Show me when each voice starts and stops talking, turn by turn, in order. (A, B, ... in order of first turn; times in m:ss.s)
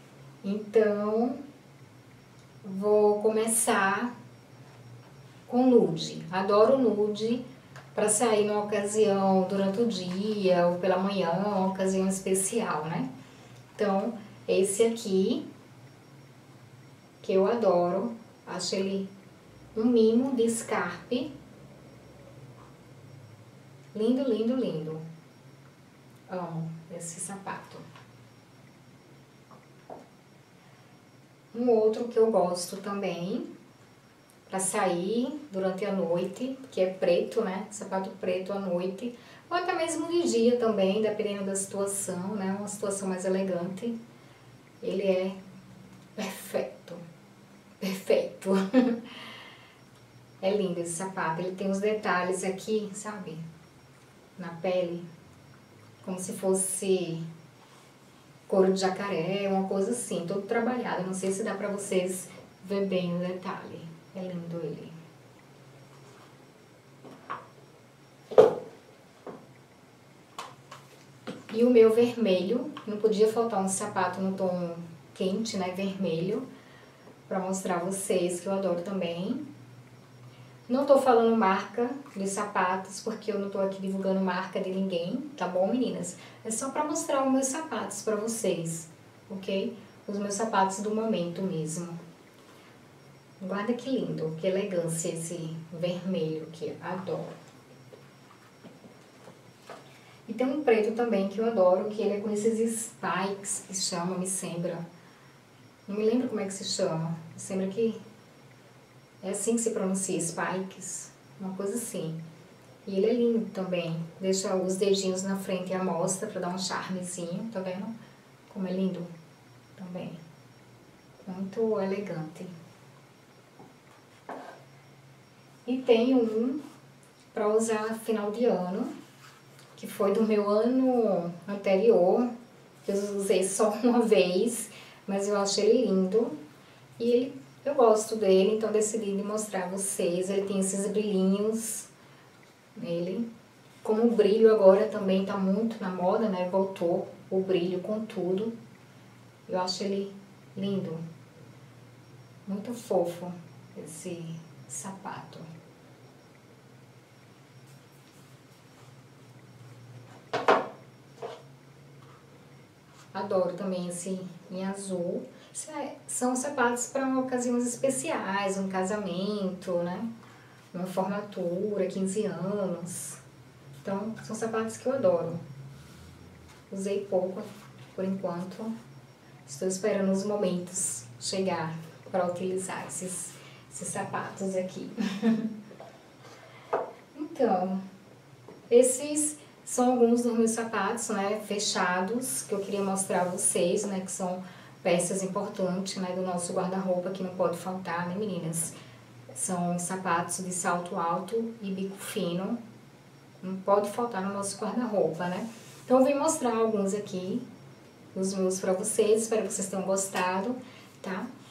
0:00.4-0:01.4 A
0:02.6-0:04.1 A
0:05.5-0:13.1 A
0:13.7-0:15.4 A
0:17.2-0:19.1 A
0:19.7-0:21.3 A
0:23.9-0:25.0 A
0:26.3-0:27.8 A
0:31.5-0:33.5 A
0:34.5-0:44.0 A
0:44.8-0:45.4 A
0:46.2-0:47.0 A
0:47.8-0:49.1 A
0:50.4-0:53.4 A
0:54.4-0:55.0 A
0:56.0-0:57.2 A
0:58.5-1:04.9 A
1:11.5-1:16.4 A
1:17.3-1:19.4 A
1:20.7-1:32.0 A
1:33.4-1:37.3 A
1:40.3-1:44.8 A
1:45.9-1:48.0 A
1:49.2-1:52.2 A
1:52.8-1:57.9 A
1:58.5-1:59.1 A
1:59.8-2:00.2 A
2:01.2-2:02.5 A
2:05.6-2:06.6 A
2:07.3-2:08.9 A
2:09.8-2:12.3 A
2:12.8-2:16.4 A
2:17.0-2:21.9 A
2:22.7-2:23.2 A
2:23.8-2:28.5 A
2:29.5-2:31.0 A
2:32.4-2:35.5 A
2:43.1-2:50.1 A
2:50.7-2:53.2 A
2:53.8-2:55.4 A
2:56.7-2:58.7 A
2:59.4-3:05.5 A
3:07.1-3:07.8 A
3:08.7-3:18.7 A
3:19.3-3:22.6 A
3:23.4-3:27.4 A
3:28.1-3:31.3 A